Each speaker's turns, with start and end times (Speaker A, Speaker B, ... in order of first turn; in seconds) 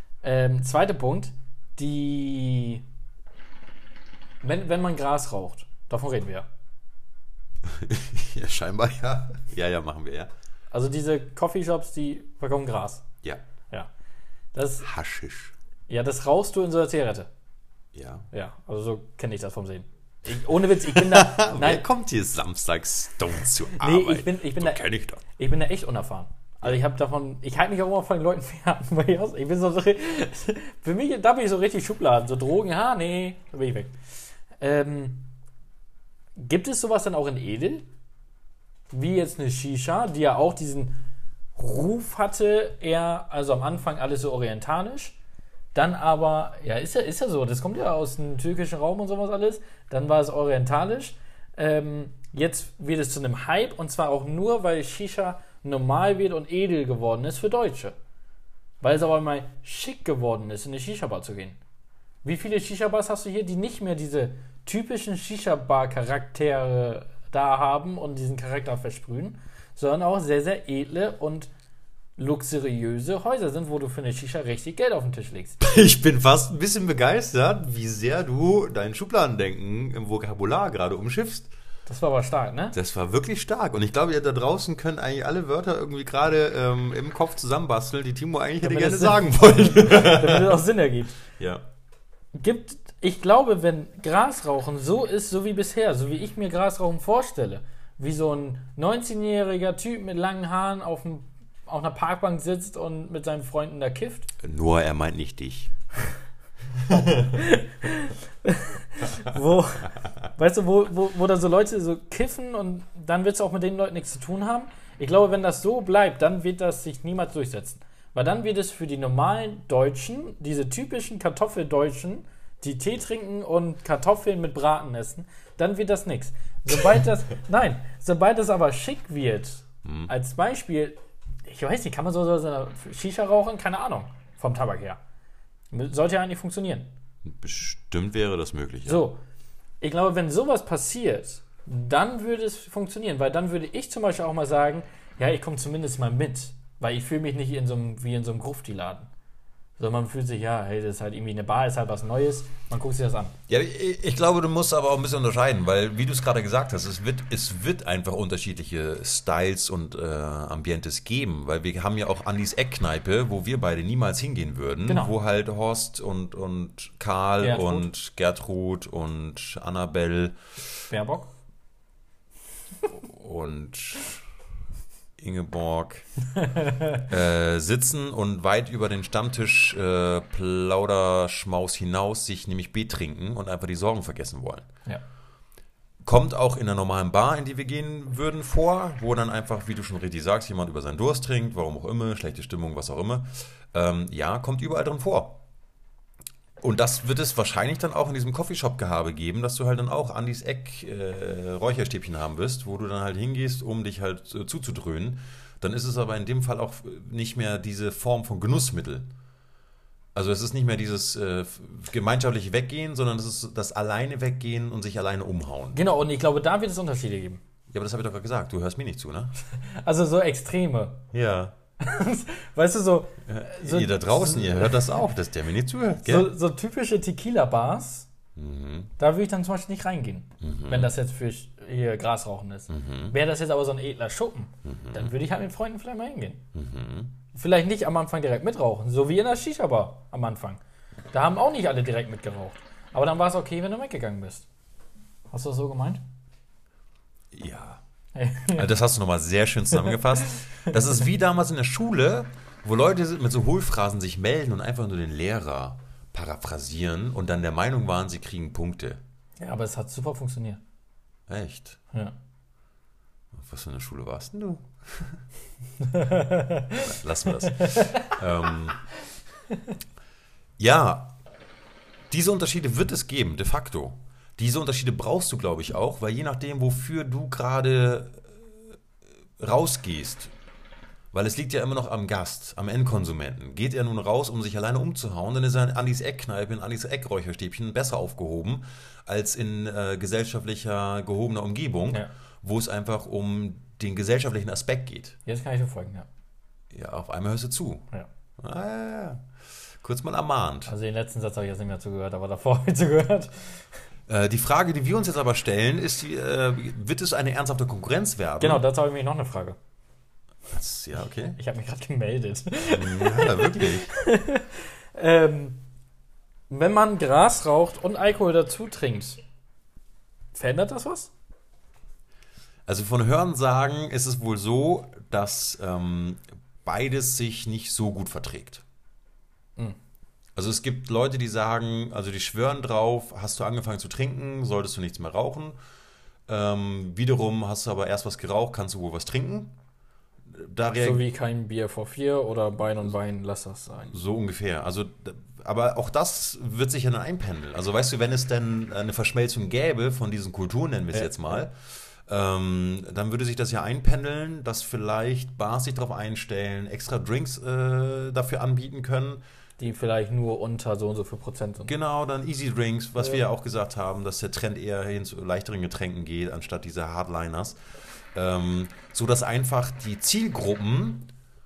Speaker A: 0.2-2.8, 4.4-6.5, 10.7-13.1, 14.5-14.9, 15.9-17.3, 18.3-21.8, 23.7-33.9, 34.6-35.3, 36.4-37.9, 38.9-41.0, 41.5-45.1, 45.7-57.9, 58.8-61.6, 62.2-71.5, 72.2-75.6, 81.9-82.8, 88.6-91.2, 92.3-104.3, 107.2-135.0, 135.7-136.9, 138.8-139.2, 139.8-149.1, 149.8-153.4, 164.9-165.1, 167.4-167.9, 170.9-171.3, 176.4-177.1, 215.7-217.4, 219.5-221.1, 221.8-224.8, 226.0-228.1, 229.0-236.4, 237.3-240.6, 241.1-244.5, 245.3-246.0, 248.1-248.7, 249.8-250.7, 259.4-260.6, 265.8-266.9, 267.5-268.1, 295.3-296.1, 300.7-303.6, 308.4-309.6, 311.3-315.6, 316.5-319.2, 320.3-321.1, 340.8-343.9, 350.9-351.4, 359.6-361.7
Speaker B: 7.6-10.3, 14.8-15.5, 17.9-18.3, 20.9-25.2, 75.6-81.5, 82.7-90.6, 91.3-91.6, 104.4-105.7, 106.9-107.3, 129.8-130.1, 137.3-139.1, 153.5-170.4, 172.9-174.2, 175.2-176.1, 177.0-184.7, 186.0-195.4, 196.6-209.1, 210.1-215.8, 217.7-219.3, 221.1-221.5, 223.3-226.3, 228.4-228.9, 230.4-230.9, 232.7-233.2, 234.6-235.1, 236.5-237.2, 247.3-247.8, 248.5-259.0, 261.3-261.8, 263.3-265.2, 266.8-268.8, 270.6-271.2, 272.1-278.4, 279.4-280.3, 281.1-295.2, 296.7-297.8, 298.4-299.2, 299.8-300.7, 304.1-308.6, 310.5-311.4, 312.6-313.9, 322.7-328.6, 330.4-335.6, 336.3-339.6, 340.3-341.0, 343.9-359.2, 361.7-367.6, 368.1-371.1